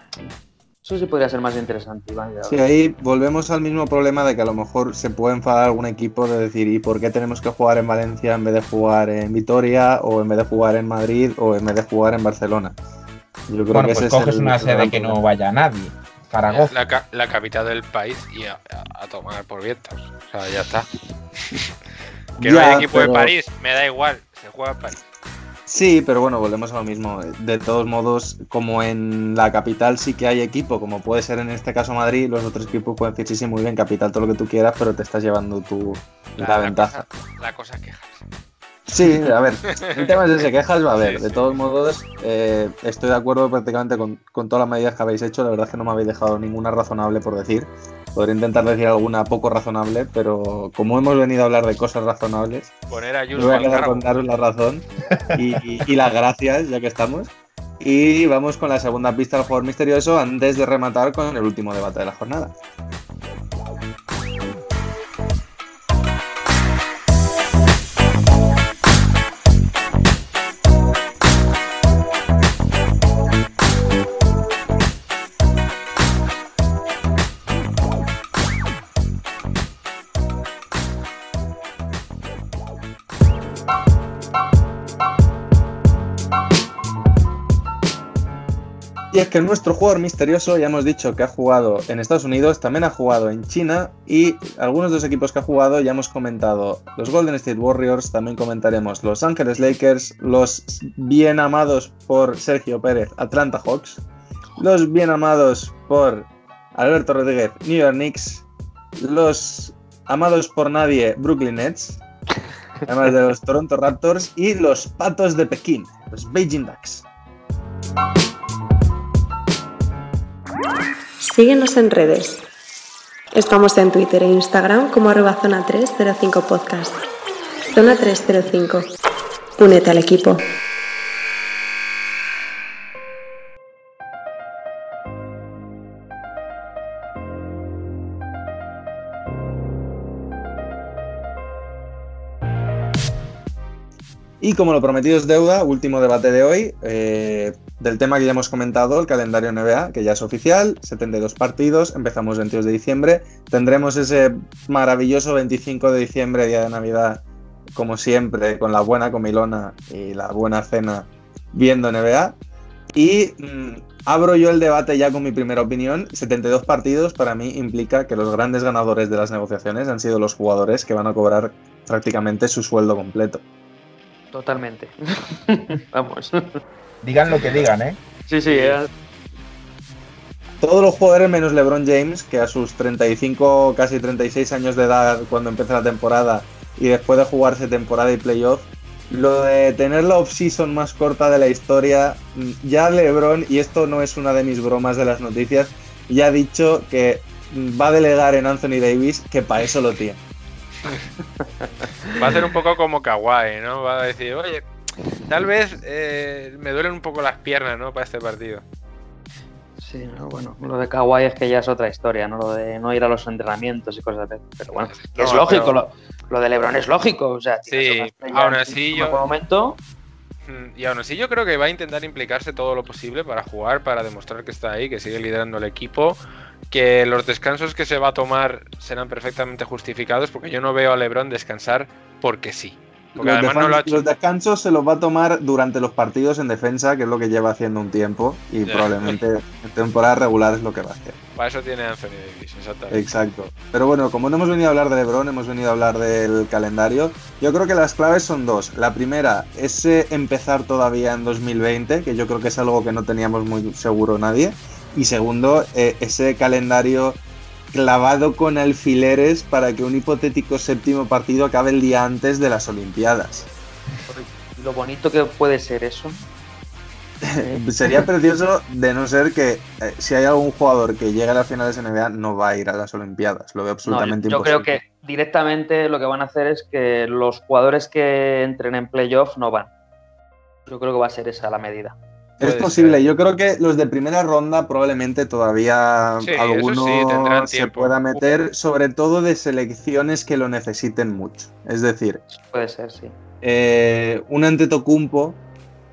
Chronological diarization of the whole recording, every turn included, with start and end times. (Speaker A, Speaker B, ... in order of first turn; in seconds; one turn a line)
Speaker A: 0.8-2.6
Speaker B: 2.5-12.8
Speaker B: 13.5-15.2
Speaker C: 13.7-16.8
Speaker D: 16.5-21.6
Speaker B: 22.4-23.3
Speaker D: 22.4-25.0
Speaker B: 25.7-37.0
Speaker D: 36.4-38.3
Speaker B: 38.9-52.8
Speaker D: 39.7-41.6
Speaker D: 52.9-54.3
Speaker B: 53.4-62.5
Speaker B: 89.1-104.0
Speaker B: 104.6-108.5
Speaker B: 109.0-112.0
Speaker B: 112.8-117.1
Speaker E: 121.2-122.4
Speaker E: 123.3-127.0
Speaker E: 127.7-128.9
Speaker E: 129.6-130.4
Speaker B: 144.4-157.2
Speaker B: 157.8-162.4
Speaker B: 162.9-173.4
Speaker A: 174.3-176.6
Speaker C: 177.0-178.0
Speaker D: 177.3-177.7
Speaker A: 178.3-178.9
Speaker D: 178.5-178.8
Speaker B: 180.6-200.2
Speaker A: 201.4-202.1
Speaker D: 202.2-204.7
Speaker D: 205.3-208.6
Speaker A: 209.8-219.8
Speaker D: 214.7-215.8
Speaker D: 217.7-219.2
Speaker D: 220.5-234.0
Speaker B: 233.2-241.2
Speaker D: 238.7-239.2
Speaker D: 241.4-243.2
Speaker B: 242.9-257.2
Speaker B: 257.7-263.5
Speaker A: 264.1-266.2
Speaker B: 267.3-274.8
Speaker A: 273.9-279.7
Speaker A: 280.7-282.0
Speaker B: 282.4-292.2
Speaker D: 282.4-283.1
Speaker D: 286.2-288.2
Speaker A: 292.3-293.1
Speaker B: 293.4-295.4